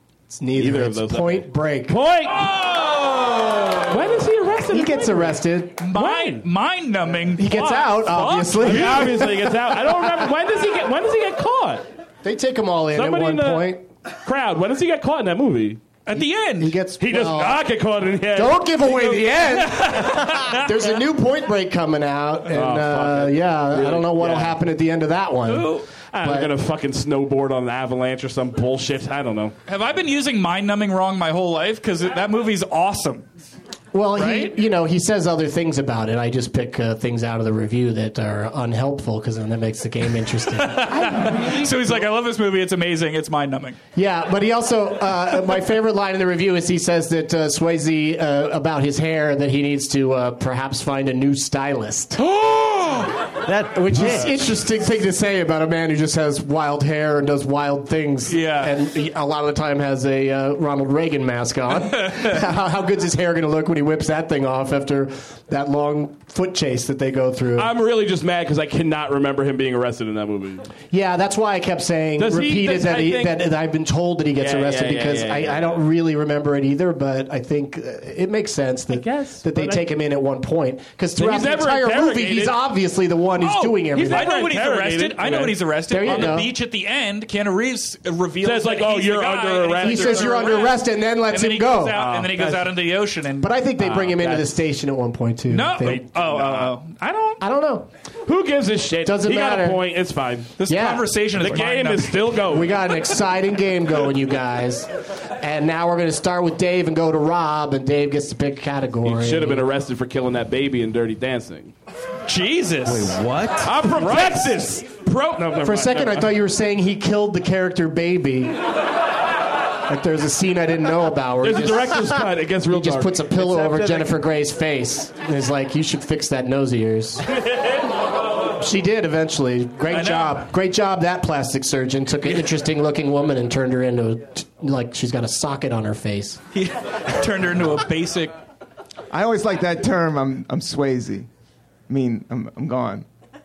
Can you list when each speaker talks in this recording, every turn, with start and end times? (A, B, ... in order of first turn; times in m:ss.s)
0:00.3-0:02.0 A
0:00.6-0:02.9 B
0:02.5-0:03.9 C
0:03.8-0:05.3 B
0:04.7-0:05.8 A
0:05.8-0:09.3 C
0:05.9-0:06.5 B
0:07.4-0:10.2 A
0:08.6-0:11.8 B
0:12.2-0:13.8 A
0:13.0-0:16.0 B
0:16.1-0:16.8 C
0:16.6-0:17.6 A
0:17.0-0:19.2 B
0:18.4-0:26.5 A
0:19.7-0:20.6 C
0:22.5-0:24.6 B
0:25.5-0:25.9 C
0:26.0-0:29.6 B
0:29.7-0:33.3 C
0:33.9-0:41.2 A
0:34.2-0:34.6 C
0:40.6-0:43.8 C
0:44.0-0:52.2 A
0:52.2-0:53.1 C
0:53.4-0:54.4 D
0:53.7-1:07.7 A
0:58.3-0:58.7 C
1:02.0-1:02.4 C
1:07.6-1:10.7 B
1:10.9-1:24.4 A
1:12.2-1:13.4 B
1:14.4-1:15.8 B
1:18.9-1:19.8 B
1:21.2-1:22.6 B
1:23.4-1:30.8 C
1:23.9-1:26.4 B
1:25.9-1:26.5 A
1:28.4-1:30.7 B
1:29.8-1:32.0 A
1:31.3-1:34.1 C
1:31.9-1:32.8 B
1:33.4-1:36.1 A
1:33.8-1:34.5 B
1:35.5-1:37.4 C
1:36.2-1:36.7 B
1:37.4-1:37.9 A
1:38.3-1:40.6 B
1:39.0-1:39.8 A
1:40.6-1:42.6 C
1:40.7-1:41.1 A
1:41.4-1:42.8 B
1:42.5-1:49.7 A
1:49.0-1:51.7 B
1:52.3-1:53.2 C
1:52.8-1:53.9 D
1:53.6-1:56.4 B
1:54.0-1:54.6 A
1:54.2-1:54.5 C
1:55.6-1:58.6 A
1:59.9-2:07.4 A
2:01.4-2:04.2 B
2:08.6-2:16.4 A
2:09.9-2:10.4 C
2:16.5-2:18.4 C
2:19.1-2:21.3 E
2:21.9-2:23.1 E